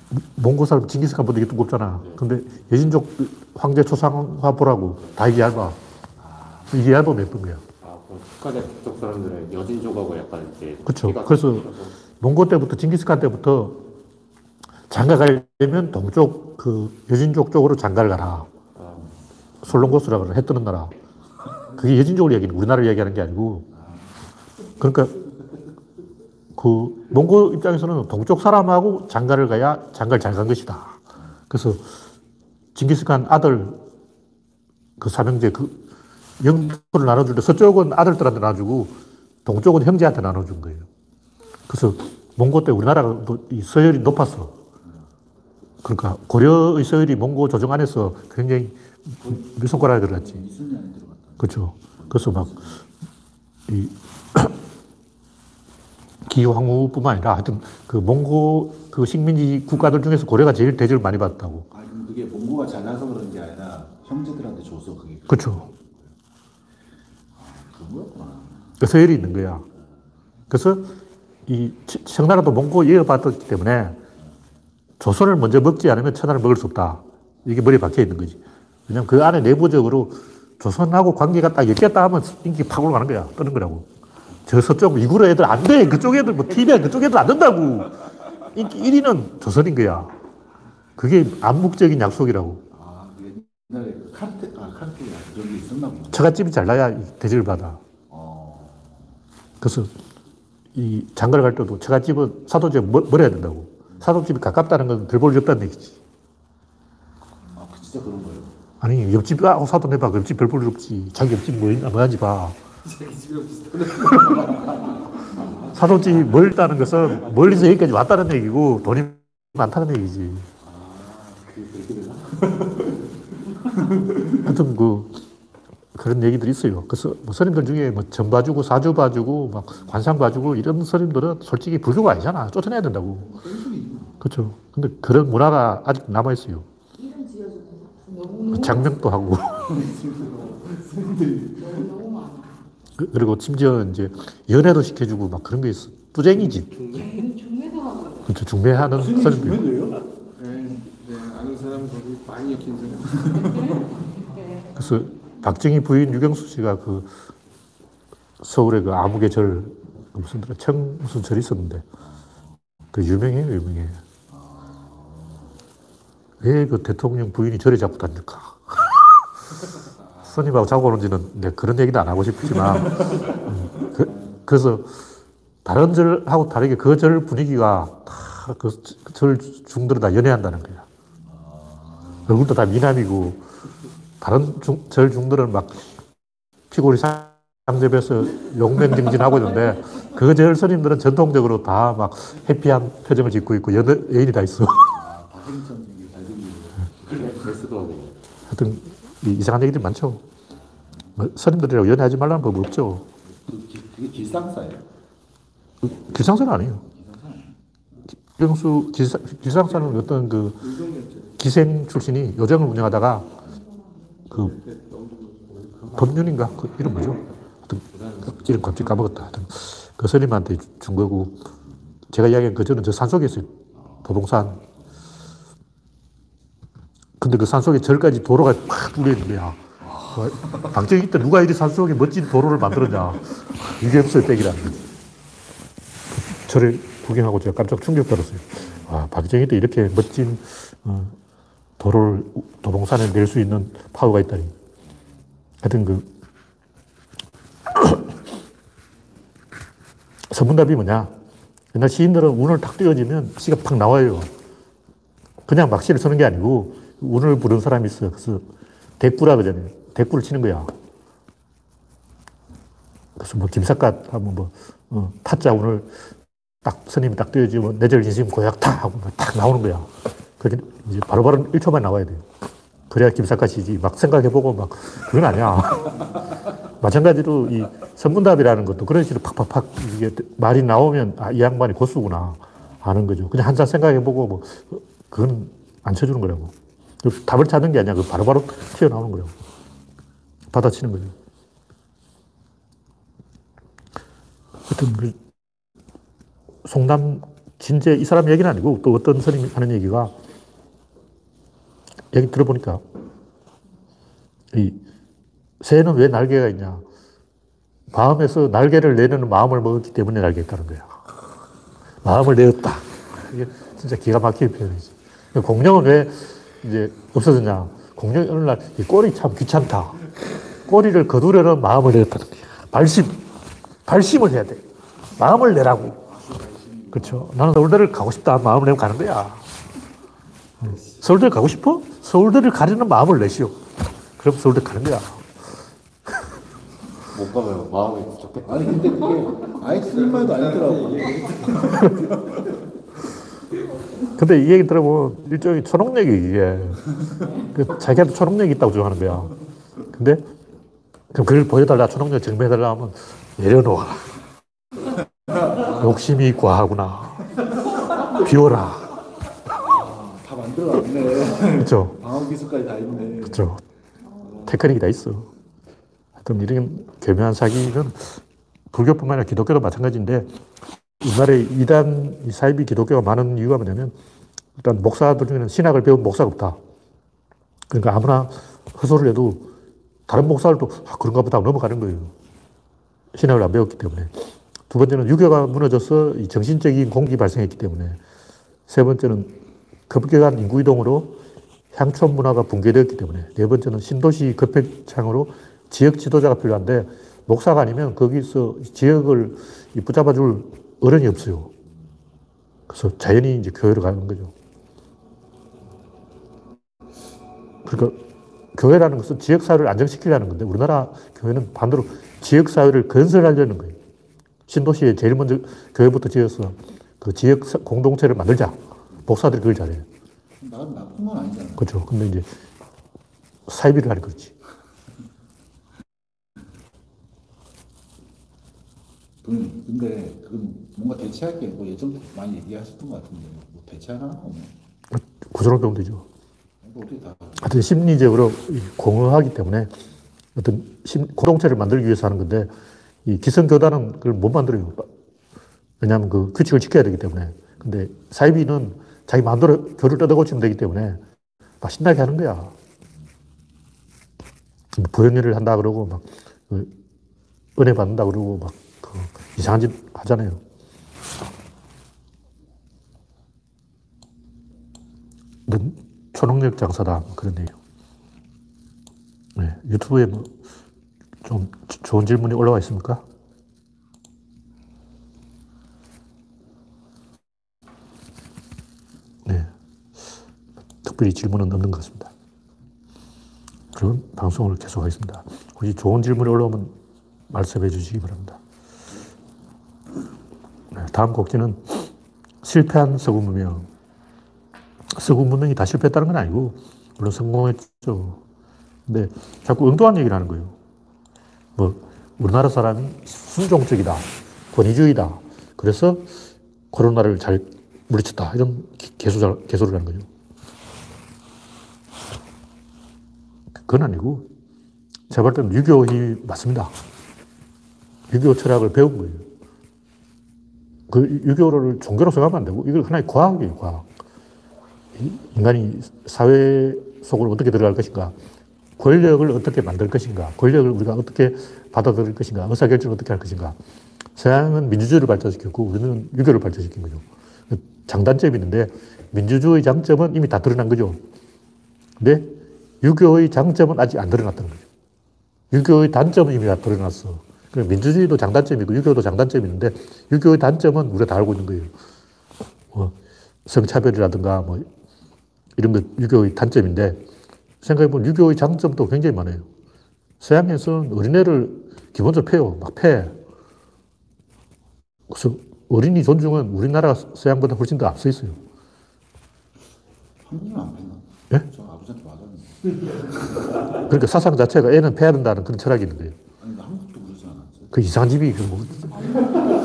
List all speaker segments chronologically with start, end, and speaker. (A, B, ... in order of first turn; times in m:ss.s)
0:00.1-0:05.8 A
0:06.2-0:06.8 B
0:06.7-0:07.6 A
0:07.8-0:12.0 C
0:10.8-0:11.7 A
0:12.2-0:13.8 A
0:14.9-0:18.5 A
0:18.8-0:19.1 C
0:19.6-0:20.9 A
0:21.7-0:23.7 A
0:23.7-0:24.2 B
0:24.8-0:25.1 A
0:26.6-0:31.9 A
0:32.8-0:33.8 A
0:35.0-0:35.8 A
0:36.4-0:40.9 A
0:41.7-0:44.6 A
0:45.8-0:50.4 A
0:49.2-0:52.8 B
0:51.4-0:52.6 A
0:53.7-0:54.6 A
0:56.3-1:01.7 A
1:01.7-1:06.1 B
1:05.3-1:05.7 A
1:07.4-1:08.8 B
1:08.8-1:09.6 A
1:10.5-1:10.9 A
1:11.5-1:14.0 A
1:15.0-1:23.9 A
1:24.5-1:30.1 A
1:31.0-1:32.6 A
1:32.7-1:36.3 B
1:36.1-1:37.8 A
1:38.1-1:39.2 B
1:39.6-1:39.9 A
1:40.8-1:46.0 A
1:47.4-1:48.6 B
1:48.8-1:52.6 A
1:52.9-1:54.9 D
1:55.3-1:56.6 B
1:55.7-2:00.5 A
2:00.6-2:03.0 B
2:03.6-2:04.3 B
2:04.4-2:05.2 A
2:06.0-2:13.4 A
2:13.3-2:14.2 B
2:14.2-2:16.7 A
2:17.0-2:19.0 E
2:18.5-2:19.7 A
2:19.6-2:21.8 B
2:21.6-2:22.6 E
2:23.0-2:26.8 A
2:26.9-2:28.3 E
2:28.2-2:29.7 A
2:28.9-2:30.0 B
2:30.4-2:33.6 D
2:33.2-2:34.8 E
2:34.8-2:37.1 A
2:38.4-2:41.8 A
2:42.9-2:44.0 A
2:44.3-2:45.5 B
2:46.4-2:49.0 A
2:50.2-2:50.4 B
2:50.2-2:55.0 A
2:52.6-2:53.5 B
2:55.6-3:00.9 A
3:01.3-3:02.4 B
3:02.3-3:03.4 A
3:04.2-3:05.9 A
3:06.7-3:15.0 A
3:14.9-3:17.2 B
3:17.1-3:18.2 C
3:18.5-3:20.2 A
3:21.2-3:23.1 A
3:23.2-3:24.9 B
3:25.8-3:26.8 A
3:26.8-3:27.6 B
3:28.3-3:30.7 A
3:30.6-3:31.4 D
3:31.4-3:33.3 A
3:33.5-3:34.3 E
3:34.3-3:34.6 A
3:34.4-3:36.1 D
3:35.9-3:41.5 A
3:42.1-3:44.6 A
3:43.8-3:44.1 B
3:47.2-3:54.8 A
3:49.8-3:50.6 B
3:56.1-4:01.2 A
4:01.8-4:04.5 A
4:05.6-4:06.1 A
4:07.7-4:08.1 A
4:10.3-4:11.1 A
4:11.7-4:14.3 A
4:15.5-4:18.4 A
4:19.0-4:20.7 A
4:23.2-4:25.9 A
4:26.6-4:32.2 A
4:32.9-4:36.2 A
4:36.8-4:49.4 A
4:50.5-4:51.1 A
4:54.7-4:55.2 A
4:56.6-5:00.1 A
5:02.1-5:02.8 A
5:04.5-5:04.8 A
5:05.6-5:06.8 A
5:07.9-5:11.0 A
5:12.0-5:20.0 A
5:20.6-5:23.2 A
5:23.9-5:24.6 A
5:25.2-5:26.0 A
5:26.0-5:27.3 B
5:26.9-5:29.5 A
5:30.6-5:33.7 A
5:34.2-5:35.3 A
5:37.1-5:38.9 C
5:38.4-5:42.6 B
5:40.2-5:41.3 D
5:44.2-5:49.4 A
5:49.9-5:50.2 A
5:51.1-5:54.1 A
5:55.6-5:57.3 A
5:58.0-5:59.0 A
5:59.6-6:03.5 B
6:01.6-6:02.0 A
6:03.2-6:03.6 A
6:04.2-6:04.5 B
6:04.4-6:05.3 A
6:06.2-6:08.2 A
6:08.7-6:10.3 A
6:11.0-6:13.9 A
6:14.6-6:16.6 A
6:17.7-6:19.5 A
6:20.1-6:22.1 A
6:23.1-6:24.1 A
6:24.7-6:28.0 A
6:28.7-6:29.4 A
6:29.9-6:31.2 A
6:31.7-6:41.5 A
6:42.7-6:44.3 A
6:47.6-6:48.0 A
6:48.6-6:53.8 A
6:54.5-6:59.9 A
7:00.4-7:01.7 B
7:01.6-7:02.3 A
7:03.5-7:04.3 A
7:09.2-7:14.6 B
7:14.9-7:16.0 A
7:16.6-7:17.7 B
7:17.4-7:19.7 A
7:20.4-7:22.5 A
7:23.0-7:24.9 A
7:25.8-7:31.0 A
7:31.6-7:32.5 A
7:34.8-7:36.7 A
7:37.6-7:40.4 A
7:45.5-7:47.6 A
7:49.4-7:50.3 A
7:51.2-7:53.0 A
8:00.8-8:02.1 A
8:03.8-8:06.7 A
8:07.3-8:08.4 A
8:10.7-8:11.9 A
8:12.4-8:13.7 A
8:14.9-8:18.2 A
8:18.9-8:20.6 A
8:21.6-8:26.1 A
8:26.7-8:30.1 A
8:33.6-8:34.3 A
8:35.1-8:36.7 A
8:38.1-8:39.2 A
8:40.9-8:43.9 A
8:45.0-8:48.2 A
8:48.8-8:53.6 A
8:54.2-9:01.0 A
9:02.0-9:04.6 A
9:05.5-9:11.7 A
9:13.5-9:14.7 A
9:15.6-9:17.0 A
9:17.6-9:19.5 A
9:20.2-9:23.2 A
9:25.1-9:28.4 A
9:30.2-9:33.2 B
9:33.8-9:36.2 A
9:36.4-9:37.8 B
9:37.7-9:39.1 A
9:39.0-9:39.4 E